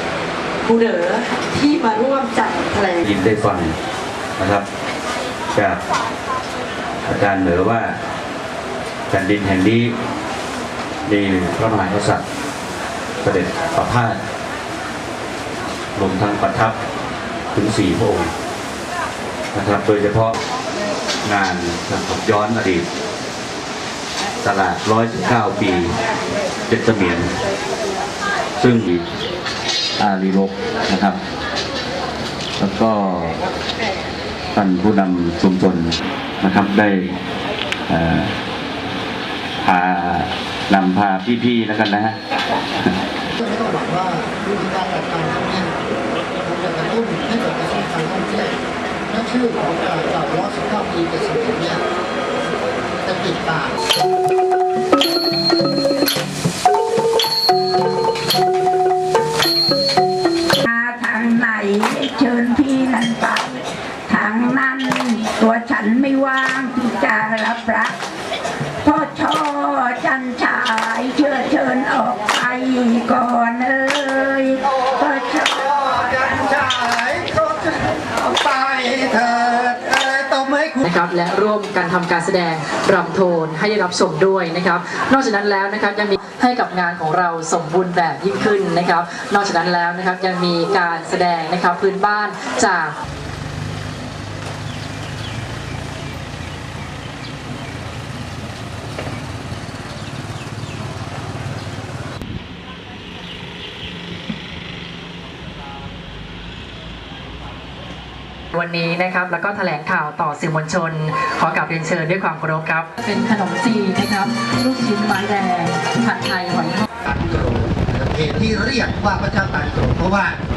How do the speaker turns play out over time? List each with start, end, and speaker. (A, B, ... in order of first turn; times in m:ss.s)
0:00.6-0:03.0 A
0:03.0-0:03.8 B
0:04.4-0:04.6 B
0:05.5-0:05.8 B
0:07.0-0:08.0 B
0:09.1-0:09.9 B
0:11.1-0:12.2 B
0:13.2-0:14.2 B
0:16.0-0:16.8 B
0:17.5-0:18.3 B
0:19.5-0:20.4 B
0:21.2-0:22.9 B
0:24.4-0:26.0 B
0:26.7-0:27.3 B
0:28.6-0:29.0 B
0:30.0-0:31.2 B
0:32.6-0:33.4 B
0:34.6-0:37.2 B
0:37.9-0:38.4 B
0:39.6-0:42.2 B
0:43.3-0:45.7 C
0:46.4-0:48.6 C
0:49.1-0:51.8 C
0:53.0-0:53.8 C
1:00.6-1:08.0 D
1:08.8-1:15.7 D
1:15.8-1:20.8 C
1:20.8-1:33.0 E
1:48.5-1:56.9 E
1:57.0-2:00.4 C